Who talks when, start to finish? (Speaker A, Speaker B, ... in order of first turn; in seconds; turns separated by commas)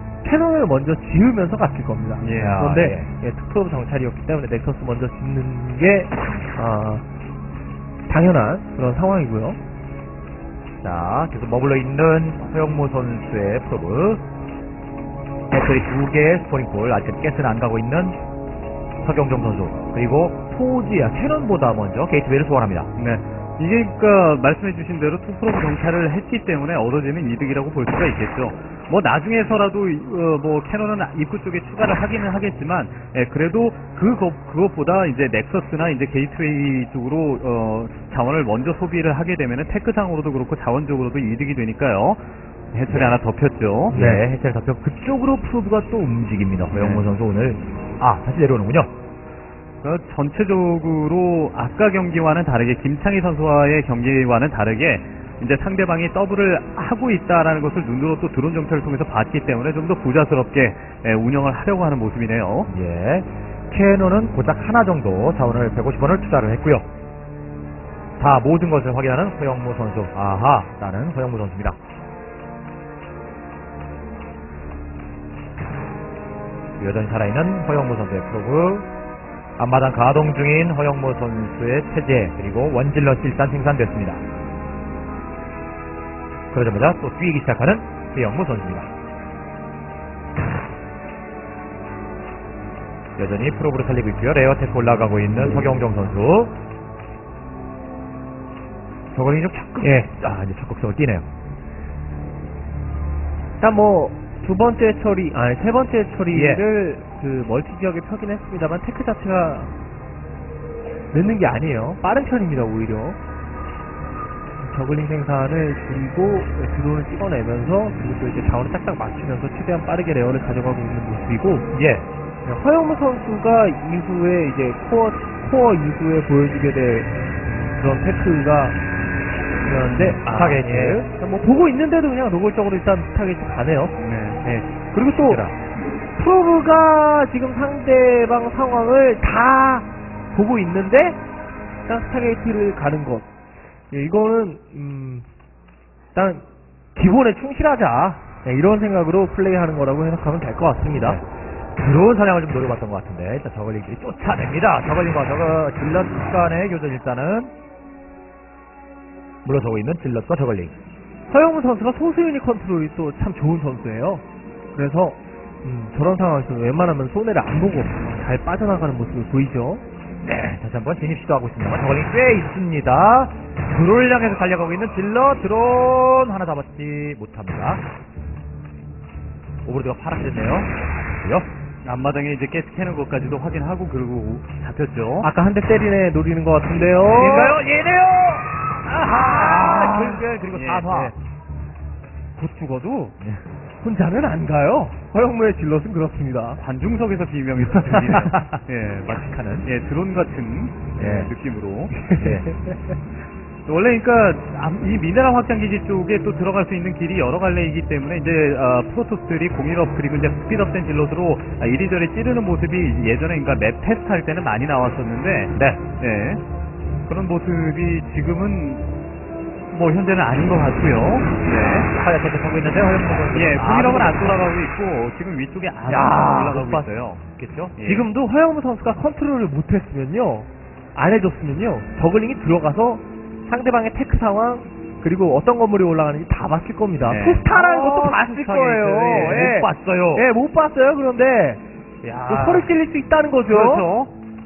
Speaker A: 0.2-7.0, Speaker B: 2.2-2.6, Speaker C: 2.4-3.1, Speaker A: 8.1-9.6, Speaker C: 10.8-14.2, Speaker C: 15.5-18.2, Speaker C: 19.0-22.9, Speaker B: 23.0-42.2, Speaker B: 42.7-44.2, Speaker C: 42.9-43.2, Speaker C: 43.9-48.9, Speaker B: 46.7-47.0, Speaker B: 49.8-62.7, Speaker C: 62.7-66.9, Speaker C: 68.2-71.8, Speaker C: 76.8-78.9, Speaker C: 79.6-84.2, Speaker C: 86.5-88.9, Speaker C: 93.2-96.6, Speaker C: 99.1-101.3, Speaker A: 99.8-100.1, Speaker A: 103.6-109.7, Speaker C: 106.3-106.6, Speaker A: 111.1-113.2, Speaker A: 114.6-121.7, Speaker C: 121.7-122.1, Speaker A: 122.5-127.1, Speaker A: 127.8-128.8, Speaker A: 129.6-135.4, Speaker C: 130.0-131.1, Speaker B: 130.1-130.6, Speaker B: 134.0-134.4, Speaker C: 135.2-135.5, Speaker A: 136.2-141.2, Speaker A: 141.9-143.3, Speaker A: 143.9-145.3, Speaker A: 146.2-151.2, Speaker C: 150.9-151.2, Speaker C: 151.8-157.5, Speaker C: 159.4-160.7, Speaker A: 161.3-164.2, Speaker A: 164.7-169.8, Speaker C: 170.2-177.8, Speaker C: 179.7-181.5, Speaker B: 181.8-185.3, Speaker A: 185.2-187.6, Speaker C: 187.0-191.1, Speaker A: 189.0-190.2, Speaker B: 190.5-190.9, Speaker A: 192.4-193.2, Speaker A: 193.8-196.6, Speaker B: 196.6-202.0, Speaker C: 197.9-199.7, Speaker C: 201.0-201.3, Speaker A: 201.9-203.0, Speaker C: 202.1-202.5, Speaker B: 203.7-216.4, Speaker C: 215.6-215.8, Speaker B: 217.1-218.8, Speaker B: 219.7-221.9, Speaker C: 221.9-224.4, Speaker B: 223.3-227.2, Speaker C: 225.9-227.8, Speaker B: 227.8-228.1, Speaker A: 227.8-241.6, Speaker B: 237.1-237.5, Speaker C: 237.5-240.2, Speaker B: 242.0-242.7, Speaker A: 242.3-243.9, Speaker B: 243.5-244.1